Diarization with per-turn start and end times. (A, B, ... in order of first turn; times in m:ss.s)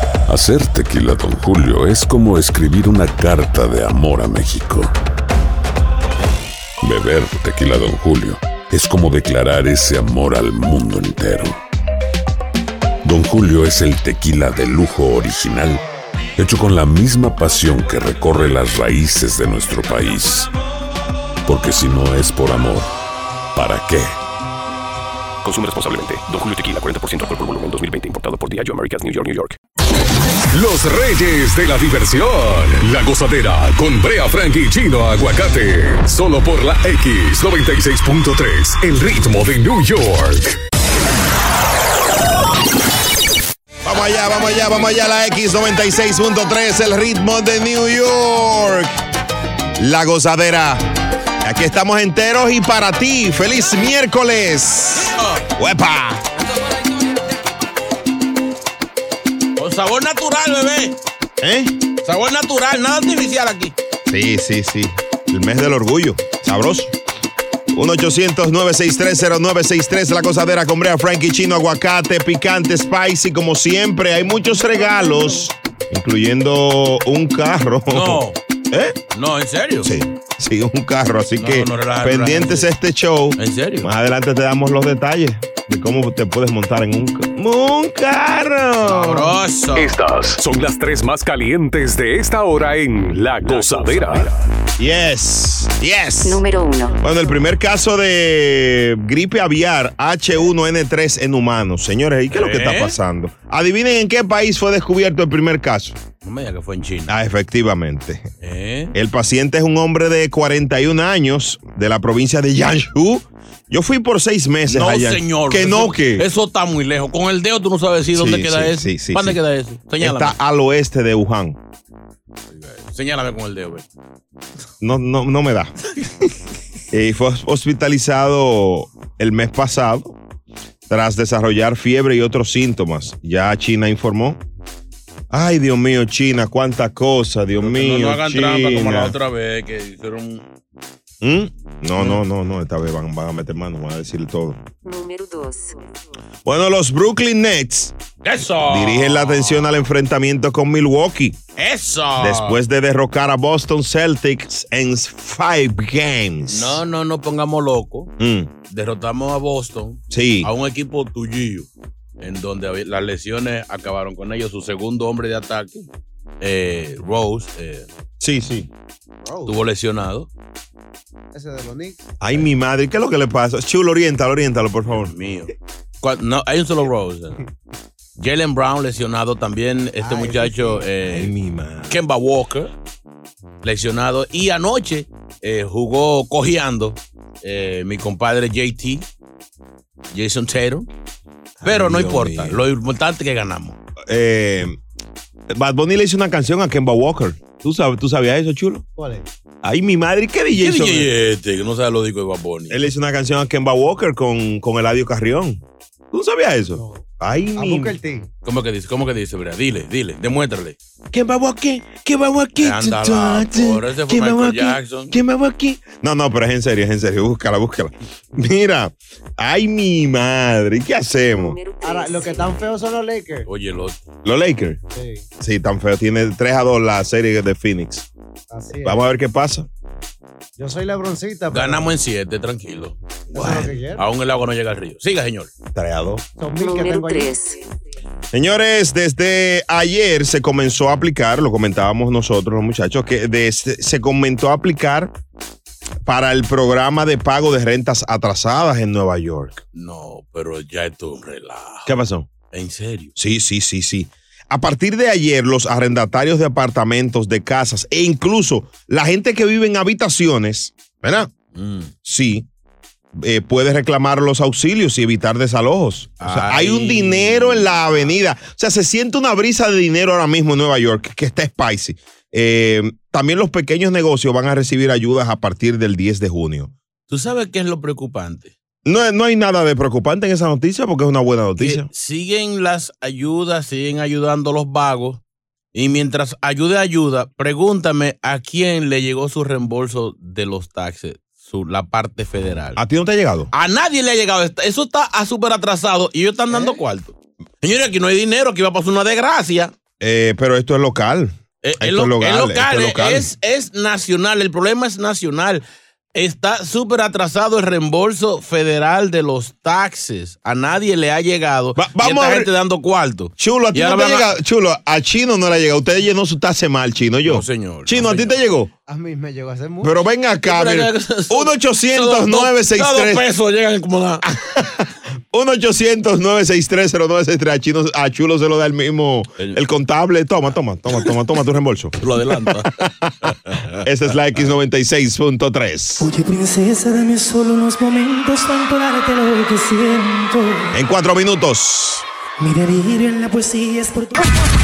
0:00.3-0:04.9 A
0:06.8-0:11.6 A
0:13.0-0:15.8 A
0:16.4-0:20.5 A
0:21.4-0:22.9 A
0:23.5-0:24.1 A
0:25.4-0:29.6 B
0:30.5-0:40.6 C
0:43.8-0:48.9 D
0:49.8-0:50.8 D
0:51.4-0:56.2 D
0:55.1-0:55.4 E
0:59.6-1:00.9 E
1:01.4-1:01.8 D
1:02.0-1:03.7 E
1:04.1-1:06.9 D
1:07.7-1:19.0 D
1:14.6-1:15.4 F
1:17.9-1:18.4 E
1:19.1-1:19.9 E
1:19.8-1:29.4 D
1:21.4-1:22.7 E
1:23.4-1:23.9 E
1:28.8-1:29.9 E
1:29.8-1:34.3 C
1:34.8-1:36.4 D
1:36.2-1:37.1 G
1:37.0-1:46.0 D
1:42.3-1:43.0 E
1:46.2-1:47.1 E
1:47.1-1:48.2 D
1:48.4-1:48.9 E
1:48.9-1:56.2 D
1:54.7-2:00.4 E
1:58.1-1:59.4 D
2:00.0-2:01.6 D
2:02.5-2:03.8 E
2:04.8-2:05.7 D
2:06.9-2:10.2 D
2:10.9-2:14.4 D
2:15.3-2:19.1 D
2:17.6-2:20.4 E
2:21.2-2:24.6 D
2:24.8-2:26.0 G
2:26.4-2:27.9 D
2:28.2-2:29.8 E
2:28.6-2:31.4 D
2:31.6-2:32.6 E
2:32.2-2:36.8 D
2:36.5-2:38.1 E
2:38.2-2:38.5 D
2:38.7-2:41.7 E
2:40.1-2:40.5 D
2:42.2-2:45.9 E
2:46.4-2:47.9 E
2:48.2-2:48.7 D
2:49.2-2:49.5 F
2:49.4-2:50.3 E
2:51.3-2:52.4 F
2:52.2-2:55.1 D
2:54.9-2:57.4 E
2:58.2-3:01.3 E
3:00.0-3:00.8 F
3:01.1-3:02.0 D
3:01.9-3:02.7 E
3:03.6-3:09.0 E
3:10.1-3:10.9 E
3:11.6-3:12.6 D
3:11.6-3:13.8 E
3:14.1-3:14.8 D
3:15.5-3:18.8 D
3:19.0-3:19.2 F
3:19.6-3:21.1 D
3:20.6-3:22.9 E
3:22.7-3:28.0 D
3:26.7-3:27.0 F
3:27.6-3:28.3 F
3:28.4-3:30.8 E
3:31.1-3:41.6 D
3:32.6-3:35.1 E
3:41.4-3:42.7 G
3:41.8-3:43.5 F
3:43.4-3:44.0 E
3:44.2-3:44.8 D
3:44.9-3:45.2 F
3:45.4-3:48.1 D
3:48.5-3:49.0 F
3:48.8-3:49.7 D
3:50.6-3:51.9 F
3:51.5-3:55.5 E
3:53.3-3:54.0 F
3:53.3-3:53.7 D
3:55.7-3:56.2 D
3:56.4-3:57.4 F
3:56.6-3:57.8 G
3:58.3-4:05.1 D
4:06.0-4:09.6 D
4:09.7-4:11.9 E
4:11.8-4:12.3 D
4:12.5-4:13.1 E
4:13.2-4:21.3 D
4:21.5-4:21.9 E
4:22.0-4:22.5 D
4:23.1-4:36.7 D
4:26.2-4:27.9 E
4:37.1-4:38.5 E
4:38.8-4:41.9 D
4:41.6-4:45.2 E
4:45.7-4:52.8 E
4:52.8-4:53.5 D
4:53.5-4:59.7 E
5:00.0-5:03.3 D
5:01.6-5:05.6 E
5:06.1-5:14.3 E
5:11.8-5:12.5 D
5:13.4-5:18.7 D
5:17.2-5:18.4 E
5:18.9-5:19.9 F
5:19.8-5:23.2 D
5:20.4-5:24.2 E
5:24.2-5:32.0 D
5:32.0-5:32.7 E
5:32.6-5:33.3 D
5:33.2-5:33.8 E
5:33.8-5:36.1 D
5:36.0-5:40.7 H
5:40.7-5:42.0 D
5:42.4-5:44.3 H